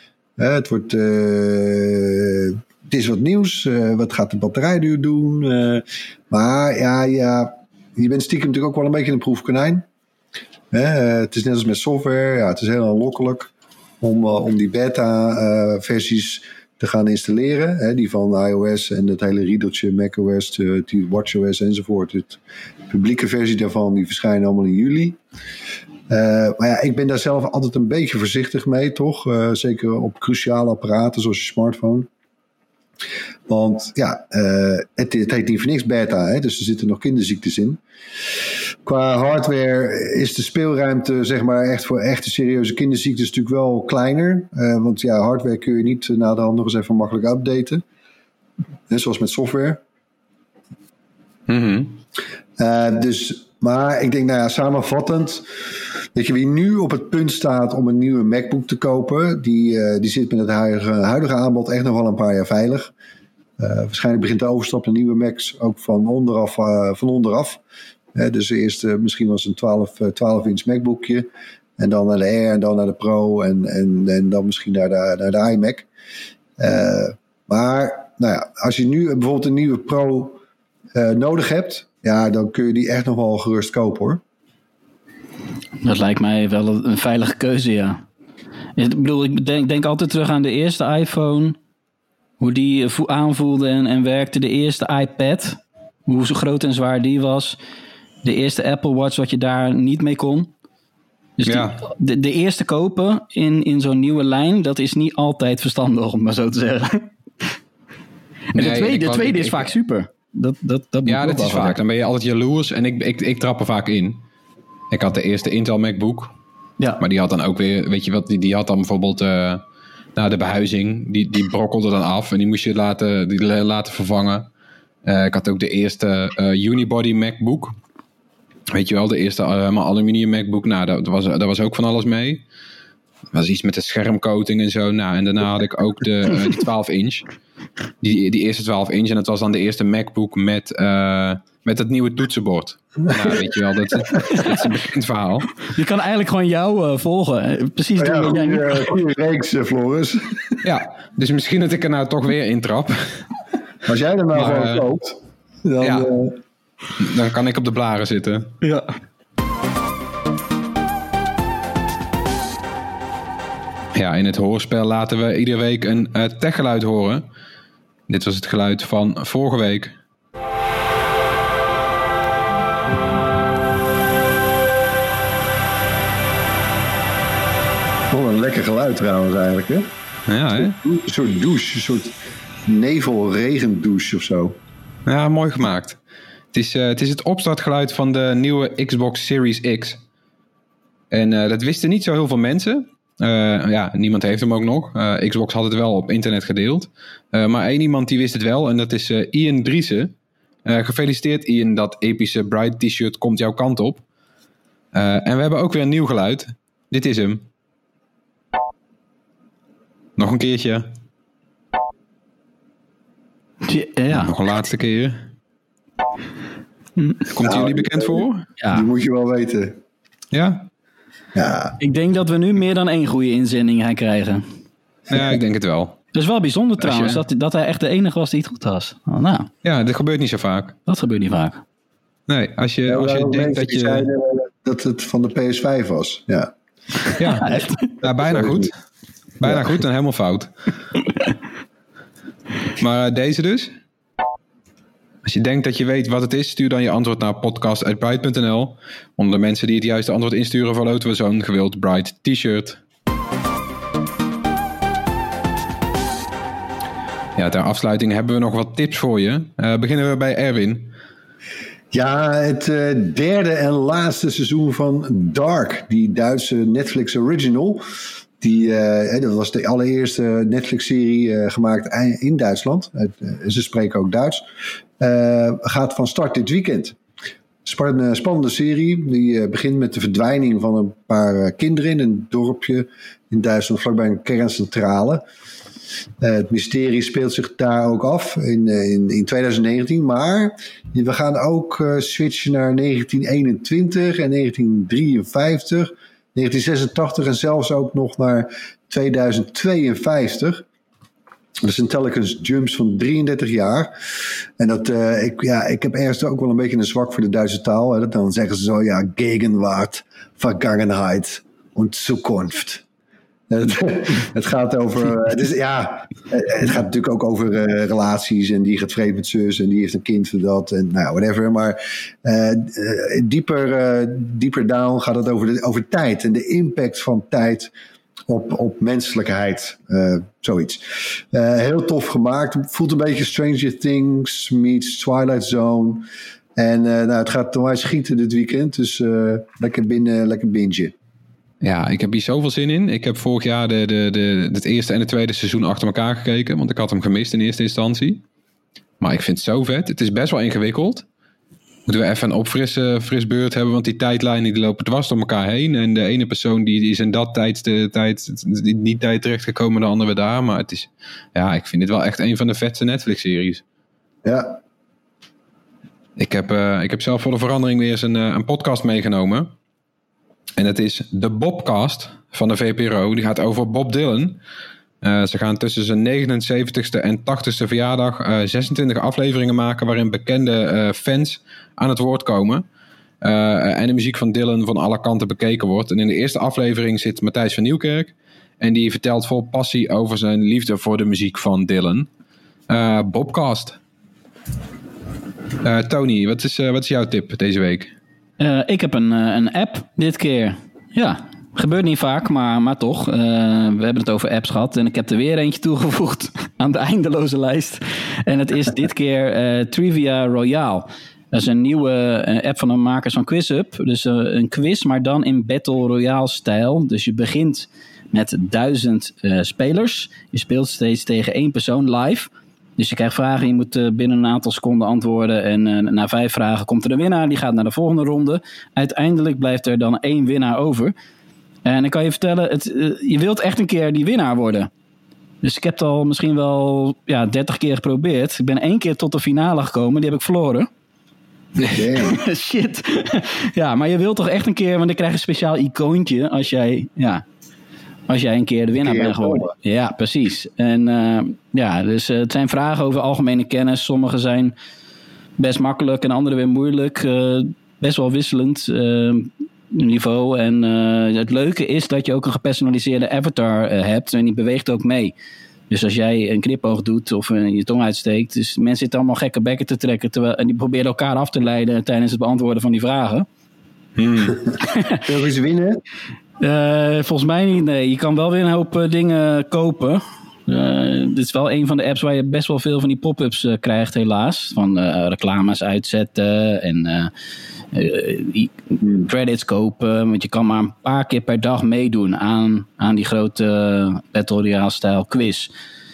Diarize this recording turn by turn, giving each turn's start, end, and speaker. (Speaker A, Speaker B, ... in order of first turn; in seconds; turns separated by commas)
Speaker A: 0.4-9.8, Speaker A: 10.7-22.4, Speaker A: 22.9-25.2, Speaker A: 26.1-32.1, Speaker A: 33.5-37.8, Speaker A: 38.8-47.8, Speaker A: 48.9-49.8, Speaker B: 51.5-52.0, Speaker A: 52.6-55.5, Speaker A: 56.1-62.9, Speaker A: 63.6-67.6, Speaker A: 68.1-75.9, Speaker A: 76.6-80.4, Speaker A: 80.9-84.2, Speaker C: 85.8-88.0, Speaker C: 88.8-91.5, Speaker C: 92.4-97.5, Speaker C: 98.2-100.5, Speaker C: 101.4-107.1, Speaker B: 101.5-101.8, Speaker C: 108.5-111.8, Speaker B: 108.5-109.7, Speaker B: 111.1-114.2, Speaker B: 114.9-116.3, Speaker B: 117.0-119.6, Speaker B: 120.2-124.5, Speaker B: 125.0-127.8, Speaker B: 128.7-132.4, Speaker B: 133.3-137.2, Speaker B: 138.0-145.6, Speaker C: 145.7-148.9, Speaker A: 148.0-150.6, Speaker B: 150.6-153.2, Speaker A: 153.8-156.3, Speaker B: 154.3-154.8, Speaker B: 155.8-156.1, Speaker B: 157.0-158.5, Speaker C: 158.6-158.9, Speaker B: 163.9-167.2, Speaker B: 168.1-169.9, Speaker A: 178.1-179.9, Speaker B: 180.3-180.8, Speaker A: 180.6-182.1, Speaker A: 182.7-184.6, Speaker B: 185.1-186.0, Speaker B: 186.5-190.0, Speaker B: 191.1-200.1, Speaker B: 200.7-204.0, Speaker B: 204.9-207.4, Speaker B: 210.2-210.9, Speaker C: 213.6-214.3, Speaker B: 214.1-215.2, Speaker B: 217.3-218.4, Speaker A: 217.4-219.8, Speaker C: 218.6-218.9, Speaker B: 220.3-220.7, Speaker A: 221.3-221.8, Speaker C: 221.8-224.4, Speaker B: 225.1-226.0, Speaker C: 226.1-229.5, Speaker B: 226.8-227.2, Speaker B: 229.6-230.8, Speaker C: 230.9-231.6, Speaker B: 232.3-234.1, Speaker A: 232.8-236.5, Speaker C: 237.2-237.9, Speaker B: 237.2-238.7, Speaker A: 238.2-238.7, Speaker B: 239.4-240.5, Speaker A: 239.4-239.7, Speaker B: 242.8-243.7, Speaker B: 245.2-252.8, Speaker B: 257.4-260.9, Speaker A: 261.9-267.8, Speaker A: 268.4-274.4, Speaker A: 275.0-276.9, Speaker A: 277.6-285.2, Speaker A: 286.2-300.6, Speaker A: 301.6-303.9, Speaker A: 304.6-312.8, Speaker A: 313.5-327.7, Speaker A: 328.3-340.9, Speaker B: 341.6-348.2, Speaker B: 349.0-351.0, Speaker B: 351.9-363.6, Speaker A: 364.2-364.6, Speaker B: 366.2-369.5, Speaker B: 370.6-374.4, Speaker B: 375.0-382.6, Speaker B: 383.2-392.1, Speaker B: 392.7-393.8, Speaker B: 395.6-397.9, Speaker C: 398.4-430.9, Speaker C: 431.6-434.7, Speaker C: 435.4-440.7, Speaker A: 441.6-442.2, Speaker C: 441.7-447.2, Speaker C: 448.1-454.5, Speaker A: 448.7-449.5, Speaker C: 455.4-465.1, Speaker C: 465.7-473.2, Speaker B: 474.0-474.4, Speaker A: 475.0-475.8, Speaker C: 476.4-487.1, Speaker C: 487.7-495.5